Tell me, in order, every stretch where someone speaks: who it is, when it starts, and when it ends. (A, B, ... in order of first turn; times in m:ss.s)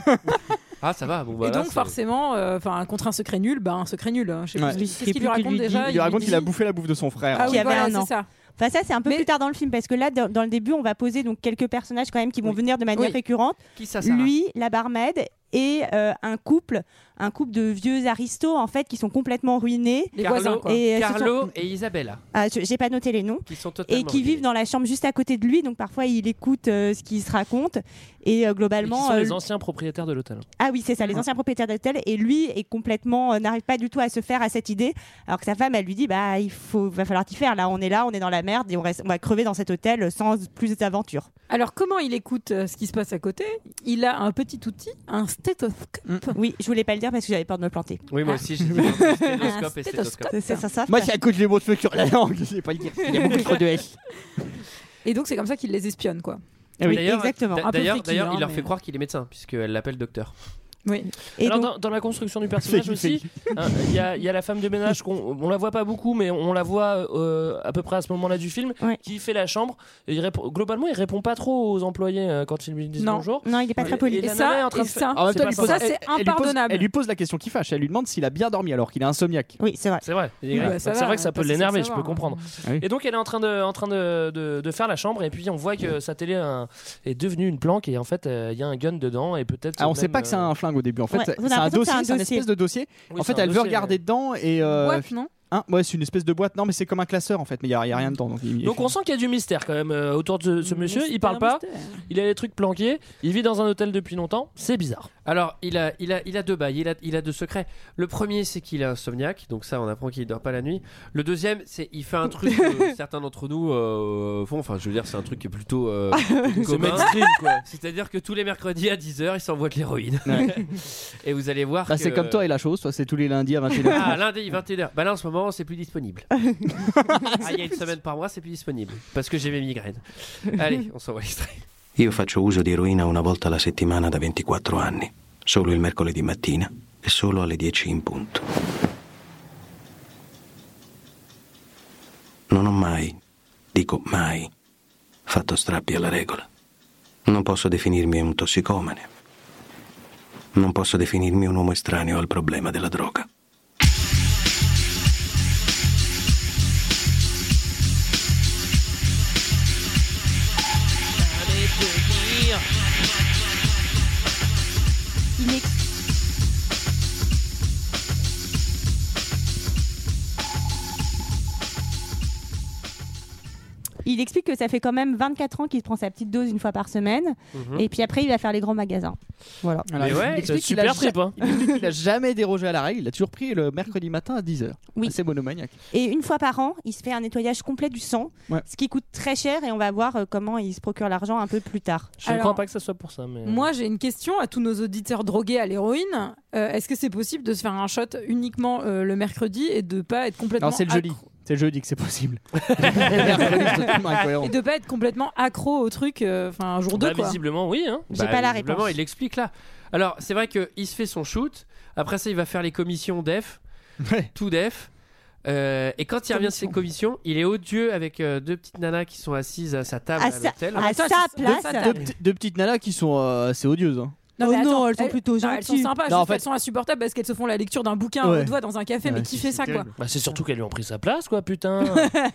0:00.8-0:02.0 A
0:01.4-0:06.5 B
0:04.6-0:07.8 C
0:04.7-0:05.7 D
0:07.4-0:08.3 B
0:07.4-0:21.4 D
0:13.8-0:14.3 A
0:20.2-0:20.8 B
0:20.2-0:22.2 A
0:22.3-0:29.4 D
0:23.5-0:24.4 A
0:28.8-0:30.5 E
0:30.6-0:41.3 D
0:41.5-0:46.4 B
0:46.3-0:48.1 D
0:48.1-0:50.3 A
0:49.4-0:50.6 B
0:50.3-0:51.1 D
0:50.9-0:54.0 C
0:55.0-0:56.4 B
0:56.8-1:00.3 A
0:56.9-0:57.7 D
0:57.6-0:58.7 B
1:00.9-1:01.1 B
1:01.4-1:01.7 D
1:01.4-1:15.9 E
1:02.6-1:03.6 C
1:13.0-1:13.3 B
1:13.4-1:14.4 D
1:13.8-1:16.9 B
1:15.1-1:19.6 C
1:19.6-1:20.0 D
1:20.0-1:30.5 E
1:20.4-1:20.7 A
1:20.5-1:22.4 B
1:29.8-1:38.9 C
1:31.1-1:32.5 D
1:33.1-1:34.0 E
1:34.7-1:35.3 B
1:38.6-1:45.1 E
1:40.6-1:42.0 B
1:45.3-2:02.5 A
1:56.3-1:57.0 D
1:56.6-1:57.6 E
2:00.2-2:00.6 C
2:01.9-2:04.2 C
2:03.9-2:06.3 A
2:07.4-2:11.6 A
2:12.0-2:18.5 F
2:22.5-2:23.2 F
2:23.7-2:24.5 F
2:25.3-2:26.5 F
2:27.3-2:29.1 F
2:30.6-2:33.3 F
2:41.3-2:42.6 A
2:45.4-2:45.7 D
2:54.0-2:59.9 D
2:57.5-2:57.8 A
2:59.9-3:05.7 C
3:00.0-3:00.4 A
3:00.1-3:01.4 E
3:05.9-3:12.2 D
3:12.2-3:13.7 E
3:12.2-3:12.6 B
3:13.4-3:21.3 B
3:20.6-3:24.6 C
3:22.7-3:23.4 A
3:24.4-3:27.4 B
3:26.9-3:28.1 E
3:28.1-3:29.0 D
3:28.1-3:33.6 A
3:34.0-3:34.3 C
3:34.3-3:34.9 A
3:35.4-3:40.9 A
3:40.2-3:41.9 D
3:40.8-3:42.0 B
3:41.4-3:44.2 C
3:44.4-3:49.9 B
3:44.4-3:45.9 D
3:46.1-3:46.4 C
3:48.2-3:49.9 C
3:50.0-3:52.1 E